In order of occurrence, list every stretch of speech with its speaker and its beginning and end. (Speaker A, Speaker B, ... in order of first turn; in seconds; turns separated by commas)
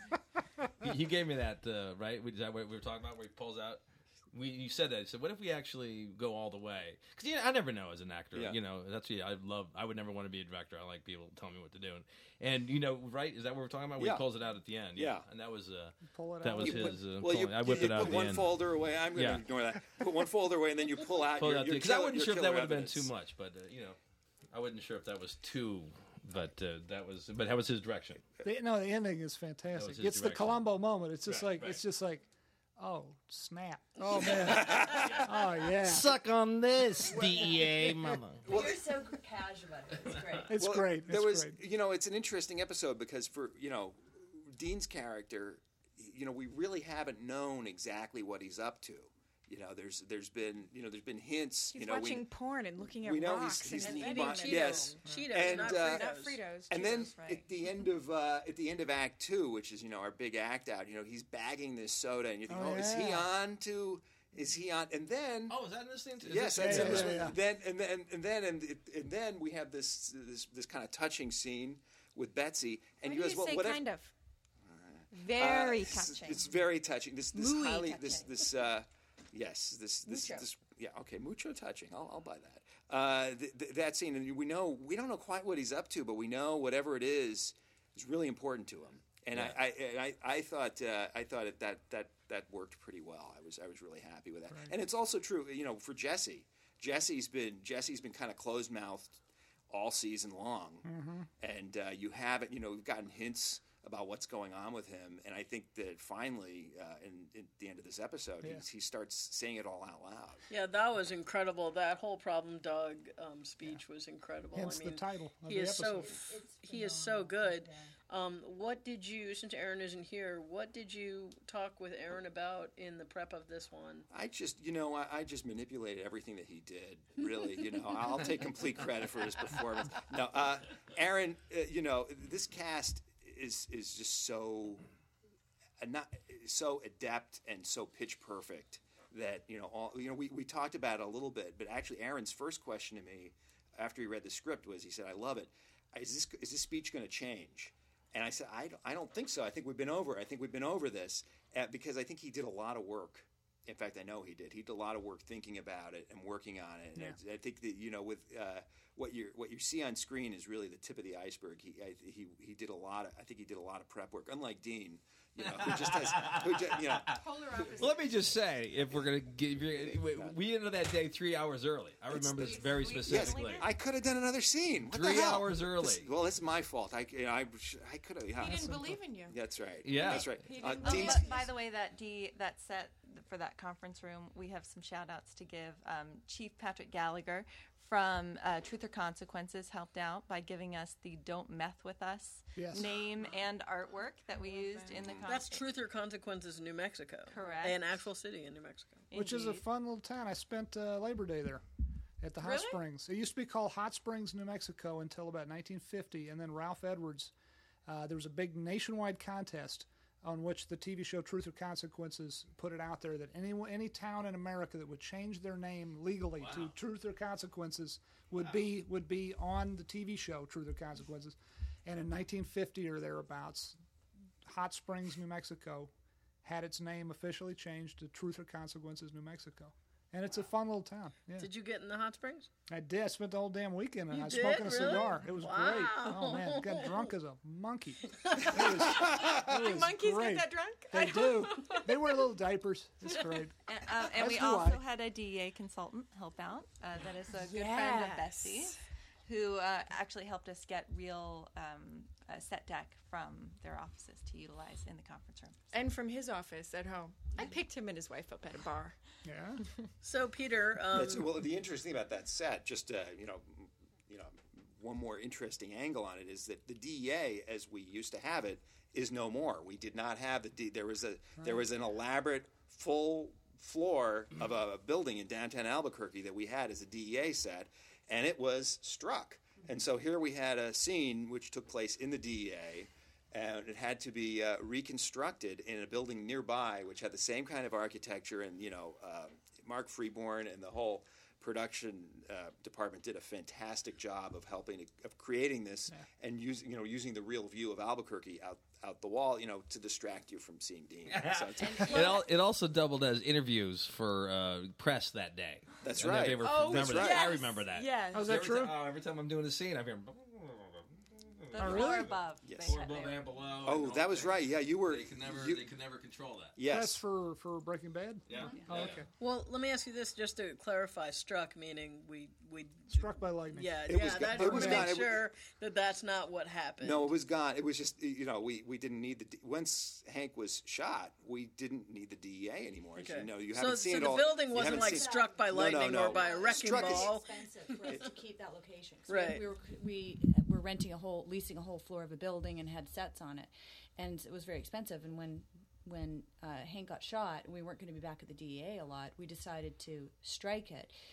Speaker A: 0.8-19.4, Speaker B: 14.0-14.2, Speaker B: 14.9-15.3, Speaker C: 16.1-17.0, Speaker B: 16.6-23.1, Speaker A: 21.4-24.0, Speaker A: 24.5-28.2, Speaker C: 28.4-36.1, Speaker A: 29.8-30.6, Speaker A: 31.3-31.8, Speaker A: 34.3-38.4, Speaker C: 37.0-38.2, Speaker D: 38.4-40.5, Speaker B: 38.4-38.8, Speaker C: 40.5-41.6, Speaker B: 40.5-52.3, Speaker E: 51.7-57.5, Speaker B: 52.9-65.6, Speaker F: 53.8-56.4, Speaker C: 62.5-63.3, Speaker A: 65.5-67.4, Speaker B: 66.2-73.8, Speaker C: 66.6-67.4, Speaker E: 73.0-74.1, Speaker B: 74.7-110.4, Speaker E: 75.1-76.5, Speaker G: 75.3-75.6, Speaker E: 77.3-78.4, Speaker E: 80.1-80.4, Speaker C: 100.8-101.3, Speaker C: 108.4-108.7, Speaker F: 110.5-124.1, Speaker C: 114.5-116.2, Speaker D: 115.8-117.9, Speaker B: 124.1-134.8, Speaker B: 135.8-167.2, Speaker A: 165.4-167.0, Speaker E: 167.0-168.4, Speaker A: 167.8-173.7, Speaker B: 172.1-181.2, Speaker G: 172.4-173.7, Speaker A: 174.9-176.1, Speaker E: 178.3-179.4, Speaker A: 179.8-180.3, Speaker E: 180.0-181.5, Speaker G: 180.1-195.6, Speaker C: 192.6-192.9, Speaker E: 194.3-195.0, Speaker B: 195.0-195.3, Speaker F: 195.2-199.1, Speaker G: 197.3-198.0, Speaker G: 199.1-199.6, Speaker C: 199.1-201.6, Speaker C: 202.2-207.3, Speaker E: 202.4-202.8, Speaker C: 207.8-223.8, Speaker A: 216.4-216.7, Speaker C: 224.4-225.9, Speaker C: 226.4-231.5, Speaker F: 231.4-232.5, Speaker C: 232.7-244.8, Speaker F: 234.1-237.1, Speaker F: 238.1-238.8, Speaker E: 239.0-242.0, Speaker G: 243.7-255.6, Speaker E: 247.4-248.8, Speaker E: 255.7-259.0, Speaker C: 259.2-259.6, Speaker F: 260.0-261.4, Speaker B: 260.9-302.2, Speaker A: 301.1-316.6, Speaker D: 301.6-302.1, Speaker B: 305.8-307.4, Speaker E: 306.4-308.5, Speaker C: 308.1-308.8, Speaker G: 311.5-313.3, Speaker C: 311.6-312.1, Speaker B: 312.4-313.0, Speaker B: 313.6-315.7, Speaker B: 316.6-317.0, Speaker C: 316.6-319.1, Speaker A: 318.3-319.0, Speaker F: 319.2-327.1, Speaker C: 322.9-324.9, Speaker B: 323.9-325.3, Speaker B: 326.8-337.1, Speaker F: 332.9-338.1, Speaker D: 334.6-350.9, Speaker F: 339.1-339.4